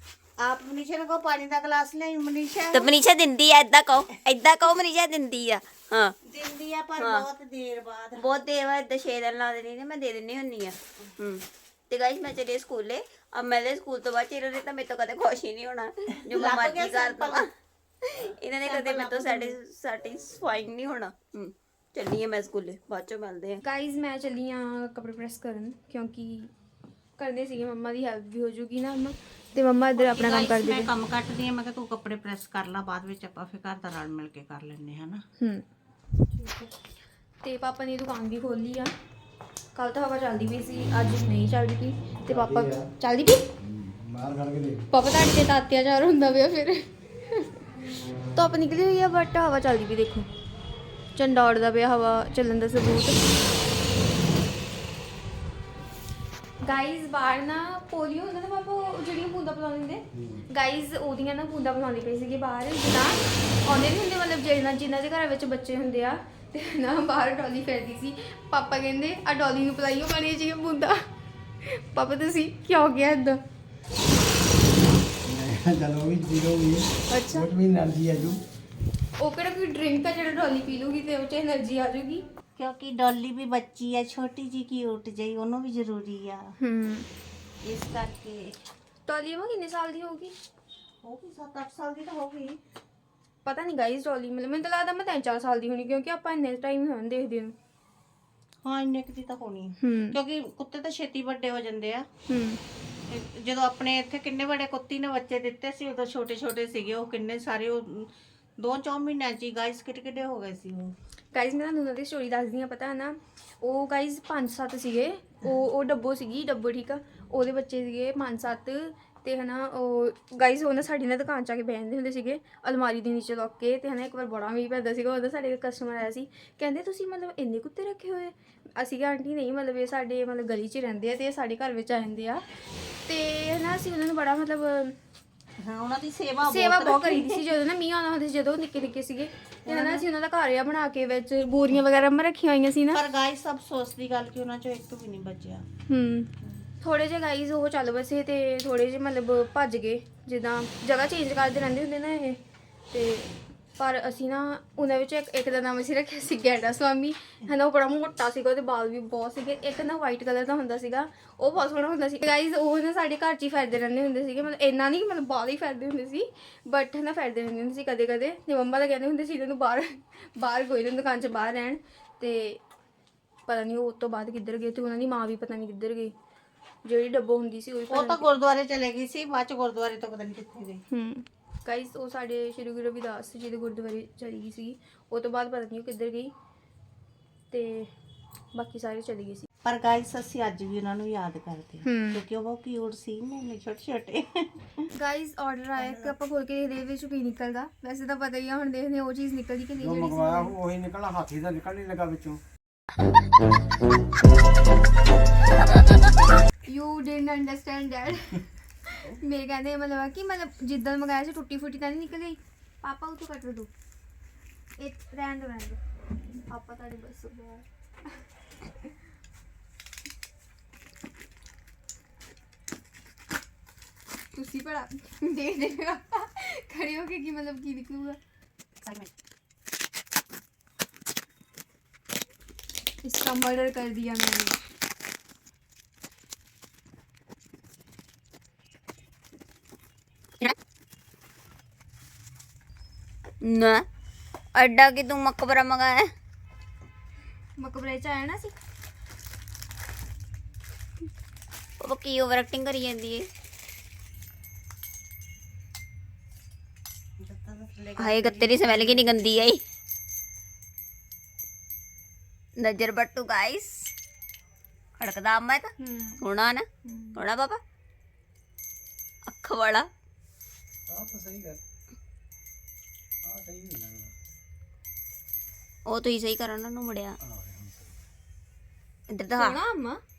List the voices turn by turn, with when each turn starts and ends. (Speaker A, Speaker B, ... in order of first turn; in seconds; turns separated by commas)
Speaker A: 0.4-2.9, Speaker B: 2.7-6.1, Speaker A: 6.2-8.2, Speaker B: 7.0-7.3, Speaker B: 8.2-17.5, Speaker A: 16.3-17.4, Speaker B: 18.1-23.6, Speaker A: 18.6-19.6, Speaker C: 23.6-26.5, Speaker C: 27.2-30.9, Speaker A: 30.0-35.2, Speaker C: 35.4-35.6, Speaker A: 36.3-36.7, Speaker C: 37.4-38.9, Speaker C: 39.7-43.5, Speaker D: 42.3-42.9, Speaker D: 43.6-44.9, Speaker C: 44.9-47.4, Speaker C: 48.3-50.3, Speaker C: 51.1-53.2, Speaker C: 56.6-71.0, Speaker D: 60.1-60.4, Speaker C: 71.6-73.4, Speaker D: 75.2-78.4, Speaker C: 77.1-77.5, Speaker C: 79.2-82.2, Speaker A: 82.5-86.5, Speaker C: 86.6-87.1, Speaker A: 87.6-88.5, Speaker C: 89.0-90.3, Speaker A: 91.0-92.6, Speaker C: 93.4-97.5, Speaker A: 98.6-102.1, Speaker C: 99.8-100.2, Speaker C: 102.3-102.6, Speaker A: 103.1-110.9, Speaker C: 111.3-132.4, Speaker C: 133.1-134.9, Speaker A: 135.6-137.4, Speaker C: 136.5-143.0, Speaker A: 139.7-140.0, Speaker A: 142.9-145.7, Speaker C: 145.9-146.3, Speaker C: 146.8-152.4, Speaker C: 152.9-172.6, Speaker C: 173.5-176.1, Speaker C: 176.8-178.2, Speaker A: 177.9-180.8, Speaker C: 180.9-186.3, Speaker C: 187.5-187.9, Speaker C: 188.5-189.4, Speaker A: 189.6-194.9, Speaker C: 191.8-192.2, Speaker C: 194.9-200.5, Speaker A: 195.8-196.1, Speaker D: 199.8-202.4, Speaker C: 206.6-213.7, Speaker C: 214.8-215.8, Speaker C: 216.5-217.6, Speaker C: 224.3-228.2, Speaker C: 233.0-234.6, Speaker B: 243.4-243.8, Speaker B: 244.5-246.1, Speaker C: 247.6-248.5, Speaker B: 251.8-253.2, Speaker A: 257.2-259.0, Speaker B: 258.0-259.6, Speaker B: 262.6-263.9, Speaker B: 265.0-266.6, Speaker C: 265.8-266.2, Speaker C: 266.8-267.2, Speaker B: 267.1-267.6, Speaker B: 269.3-269.9, Speaker D: 270.9-271.6, Speaker D: 273.2-274.1, Speaker B: 275.9-277.2, Speaker D: 277.2-278.0, Speaker B: 279.1-279.6, Speaker C: 279.4-280.0